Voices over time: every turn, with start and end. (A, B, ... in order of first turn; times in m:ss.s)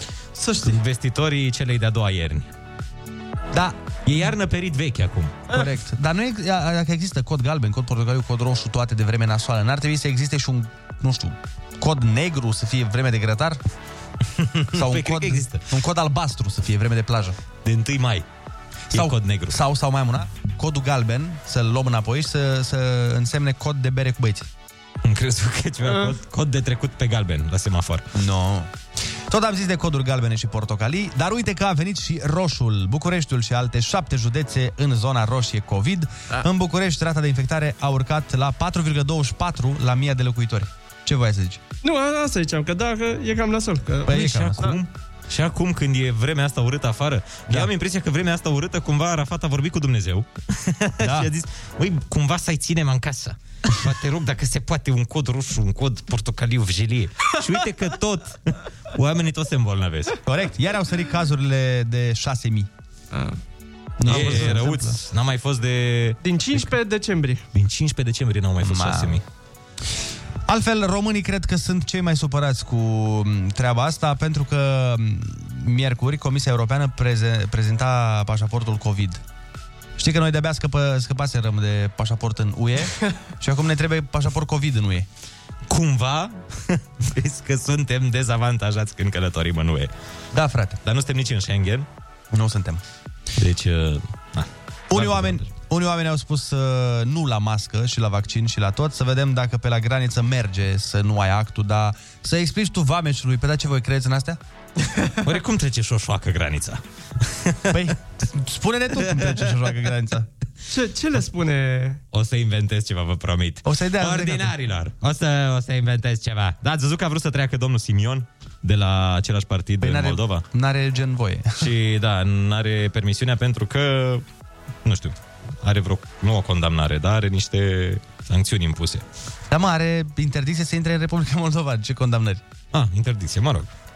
0:00.5-0:02.5 A
0:04.0-0:05.5 A
0:05.5-0:13.6 B
0:14.6-0:15.6 A
0:14.7-0:17.4 B
0:17.6-0:18.3 A
0:18.9-0:19.6 A
0:18.9-0:24.5 B
0:25.0-0:28.1 A
0:25.9-0:26.1 C
0:28.2-0:28.7 B
0:29.3-0:41.6 B
0:41.8-0:44.8 C
0:44.1-0:44.8 B
0:44.1-1:00.2 A
0:51.0-0:51.3 B
1:00.3-1:02.7 B
1:03.1-1:03.4 C
1:04.0-1:05.0 B
1:04.1-1:04.6 C
1:04.1-1:06.7 A
1:06.2-1:07.4 C
1:07.5-1:09.2 A
1:08.6-1:09.2 B
1:10.5-1:19.2 B
1:20.0-1:25.1 B
1:25.7-1:29.9 A
1:30.3-1:30.8 B
1:30.8-1:31.9 A
1:32.3-1:32.8 B
1:33.4-1:35.5 A
1:34.9-1:44.4 B
1:45.2-1:47.8 A
1:47.7-1:50.3 B
1:50.7-1:52.0 C
1:52.1-2:00.4 A
1:53.6-1:54.5 B
1:59.8-2:01.7 B
2:01.6-2:04.2 A
2:04.8-2:09.0 A
2:09.5-2:12.4 B
2:12.7-2:13.7 A